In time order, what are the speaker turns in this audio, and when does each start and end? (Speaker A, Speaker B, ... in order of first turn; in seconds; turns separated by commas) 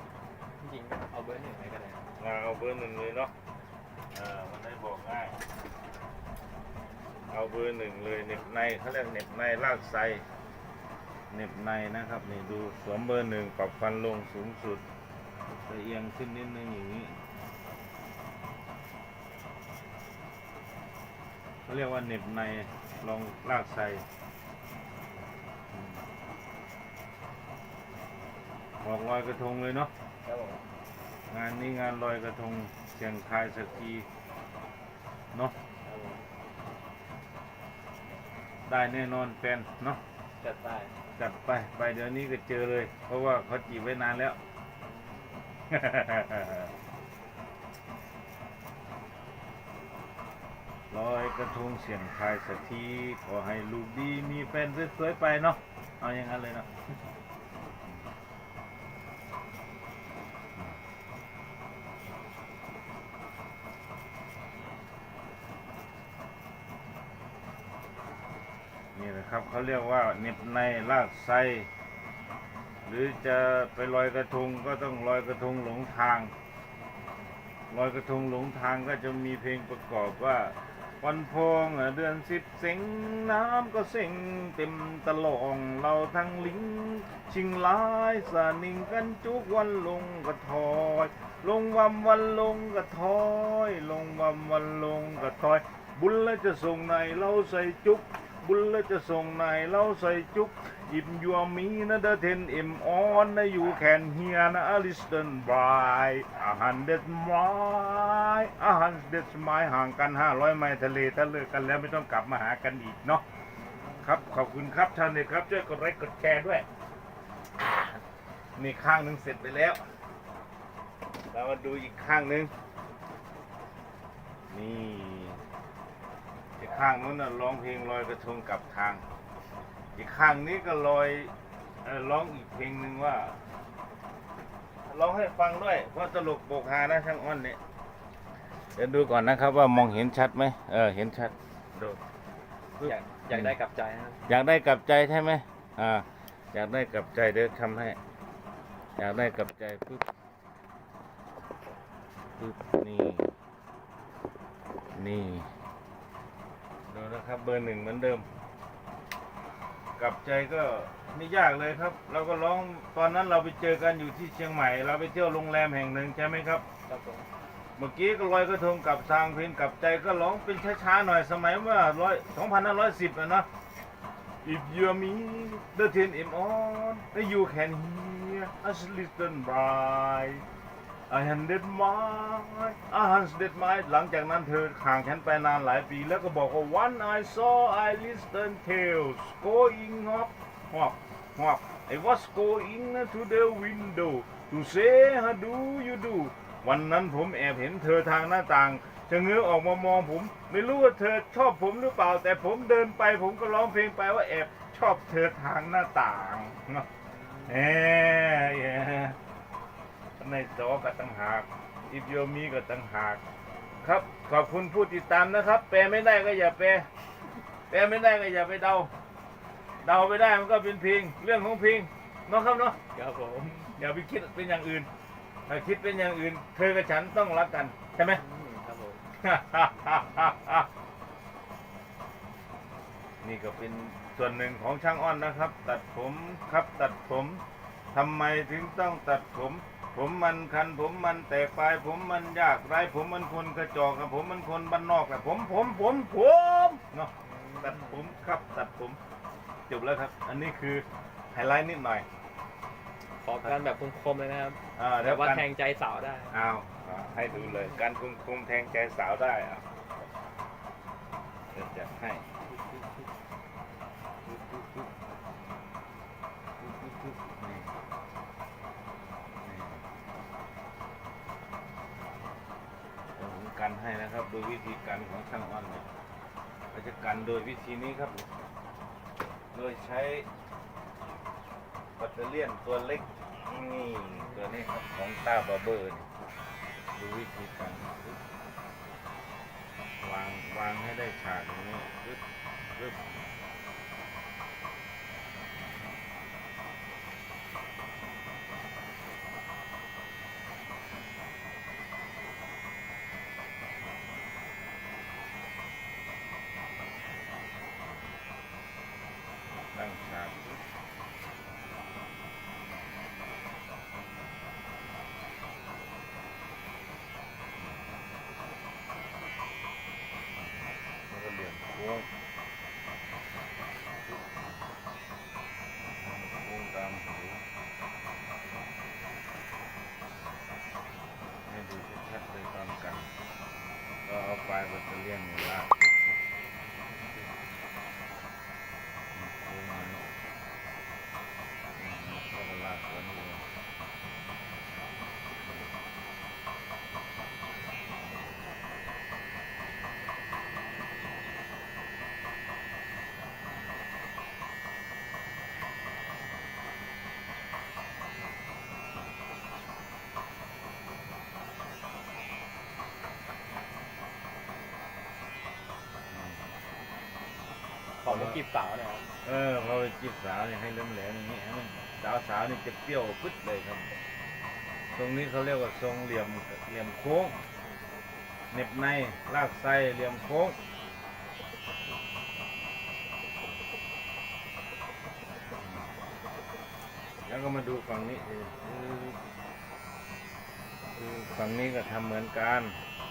Speaker A: 0.6-2.1, Speaker B: 2.2-3.3, Speaker B: 4.1-5.4, Speaker B: 7.3-10.2, Speaker B: 11.3-14.8, Speaker B: 15.7-17.2, Speaker B: 21.6-24.0, Speaker B: 25.7-26.0, Speaker B: 28.8-29.9, Speaker A: 30.2-30.6, Speaker B: 31.3-34.1, Speaker A: 35.8-36.3, Speaker B: 38.7-40.0, Speaker A: 40.4-40.9, Speaker B: 41.2-44.4, Speaker A: 44.8-45.4, Speaker B: 45.7-46.7, Speaker B: 50.9-56.7, Speaker B: 68.9-71.7, Speaker B: 72.8-76.3, Speaker B: 77.7-113.2, Speaker A: 113.6-114.1, Speaker B: 114.0-116.7, Speaker B: 118.6-119.8, Speaker B: 121.3-122.5, Speaker B: 124.5-125.4, Speaker B: 126.6-129.0, Speaker B: 129.9-131.3, Speaker B: 131.8-133.4, Speaker B: 134.8-137.6, Speaker B: 138.8-142.0, Speaker B: 142.8-143.5, Speaker A: 142.8-144.2, Speaker B: 144.3-148.0, Speaker B: 149.0-150.1, Speaker B: 152.4-153.3, Speaker B: 154.9-155.5, Speaker B: 156.9-158.3, Speaker B: 160.0-166.6, Speaker A: 166.9-167.3, Speaker B: 167.8-173.5, Speaker B: 174.4-180.4, Speaker B: 181.1-206.9, Speaker A: 207.1-207.6, Speaker B: 207.4-209.2, Speaker B: 210.2-213.2, Speaker B: 213.8-216.9, Speaker B: 217.7-218.9, Speaker B: 219.8-222.8, Speaker A: 222.9-223.8, Speaker B: 223.8-224.9, Speaker B: 225.5-228.2, Speaker A: 228.1-229.0, Speaker B: 229.2-230.7, Speaker B: 233.2-237.4, Speaker B: 237.9-249.0, Speaker A: 247.2-248.1, Speaker B: 249.7-252.1, Speaker A: 253.2-256.3, Speaker B: 254.8-255.4, Speaker B: 256.3-259.6, Speaker A: 257.3-257.7, Speaker B: 261.5-263.0, Speaker B: 264.2-264.9, Speaker B: 266.6-267.7, Speaker B: 269.4-269.8, Speaker B: 273.1-275.9, Speaker B: 276.7-278.3, Speaker B: 279.5-280.3, Speaker B: 282.0-286.1, Speaker B: 286.9-288.2, Speaker B: 290.0-292.2, Speaker B: 292.7-293.1, Speaker B: 309.7-310.6, Speaker B: 321.1-322.1, Speaker B: 324.1-324.3, Speaker B: 326.0-327.4, Speaker B: 331.5-333.1, Speaker B: 334.0-336.1, Speaker B: 339.1-340.0, Speaker B: 341.8-343.5, Speaker B: 366.1-366.4, Speaker A: 368.0-369.1, Speaker B: 368.0-368.4, Speaker B: 369.2-373.9, Speaker B: 374.9-377.4, Speaker B: 378.5-380.6, Speaker B: 385.6-385.9, Speaker B: 387.2-389.2, Speaker B: 390.9-392.8